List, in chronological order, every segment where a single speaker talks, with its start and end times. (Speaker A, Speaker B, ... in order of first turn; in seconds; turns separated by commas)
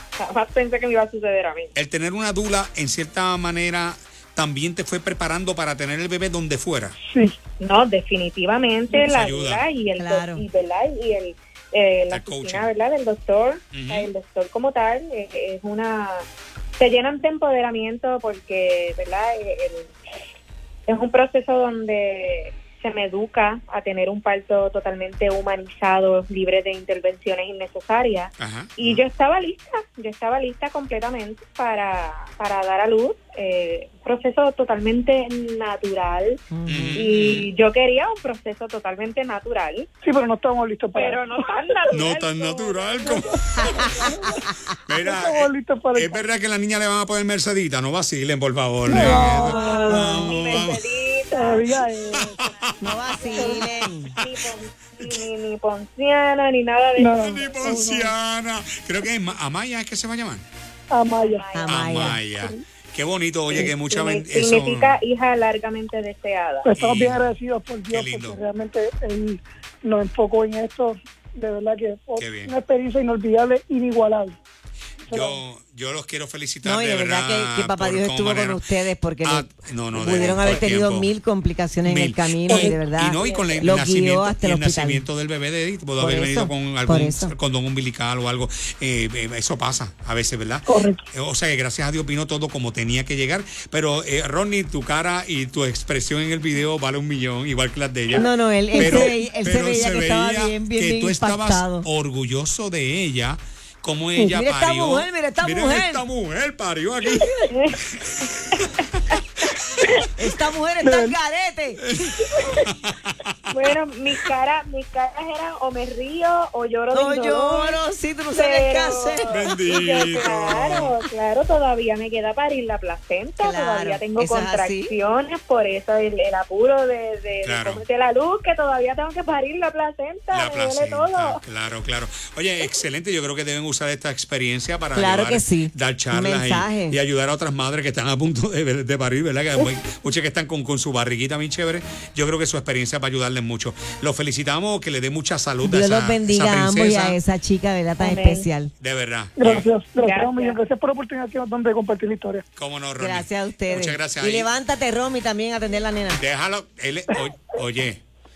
Speaker A: 0.2-1.7, Speaker B: 1.7-6.9, Speaker C: 7.1-7.3, Speaker A: 7.6-16.2, Speaker B: 9.0-9.6, Speaker D: 10.0-10.4, Speaker B: 12.1-12.7, Speaker B: 13.7-14.1, Speaker A: 16.8-19.9, Speaker A: 20.9-36.4, Speaker B: 28.4-29.0, Speaker D: 36.5-37.1, Speaker B: 36.7-37.5, Speaker A: 36.9-39.9, Speaker C: 40.0-41.2, Speaker A: 40.9-44.2, Speaker B: 41.9-44.0, Speaker C: 43.0-44.4, Speaker B: 44.7-50.8, Speaker C: 45.0-46.2, Speaker C: 48.9-50.6, Speaker A: 49.2-51.8, Speaker C: 51.3-52.4, Speaker B: 52.2-52.5, Speaker D: 52.8-54.1, Speaker A: 53.2-53.6, Speaker C: 53.3-53.6, Speaker A: 54.2-57.1, Speaker C: 57.0-58.1, Speaker B: 57.2-60.4, Speaker C: 60.9-61.5, Speaker A: 61.1-61.9, Speaker D: 61.5-62.2, Speaker B: 61.6-65.0, Speaker C: 62.4-62.6, Speaker A: 63.5-66.7, Speaker C: 66.6-74.3, Speaker B: 66.7-67.2, Speaker B: 67.9-68.4, Speaker B: 72.2-72.5, Speaker C: 75.0-75.4, Speaker B: 75.1-78.6, Speaker D: 76.6-85.0, Speaker B: 79.2-81.1, Speaker B: 81.8-107.3, Speaker C: 82.5-82.8, Speaker A: 83.2-83.7, Speaker D: 86.0-87.3, Speaker C: 90.7-91.1, Speaker D: 98.1-101.9, Speaker C: 98.7-99.2, Speaker D: 104.3-106.0, Speaker A: 107.5-109.4, Speaker B: 107.9-108.7, Speaker D: 110.2-111.9, Speaker C: 110.8-111.2, Speaker B: 111.9-113.4, Speaker A: 113.5-117.8, Speaker D: 116.9-119.4, Speaker A: 118.3-131.4, Speaker B: 119.3-120.9, Speaker D: 123.4-124.9, Speaker B: 127.4-127.8, Speaker B: 130.3-147.2, Speaker D: 134.9-137.0, Speaker D: 145.6-148.7, Speaker A: 148.0-148.5, Speaker B: 148.8-149.7, Speaker C: 149.4-152.4, Speaker A: 149.9-150.6, Speaker B: 152.6-154.5, Speaker D: 153.0-156.2, Speaker B: 156.2-158.0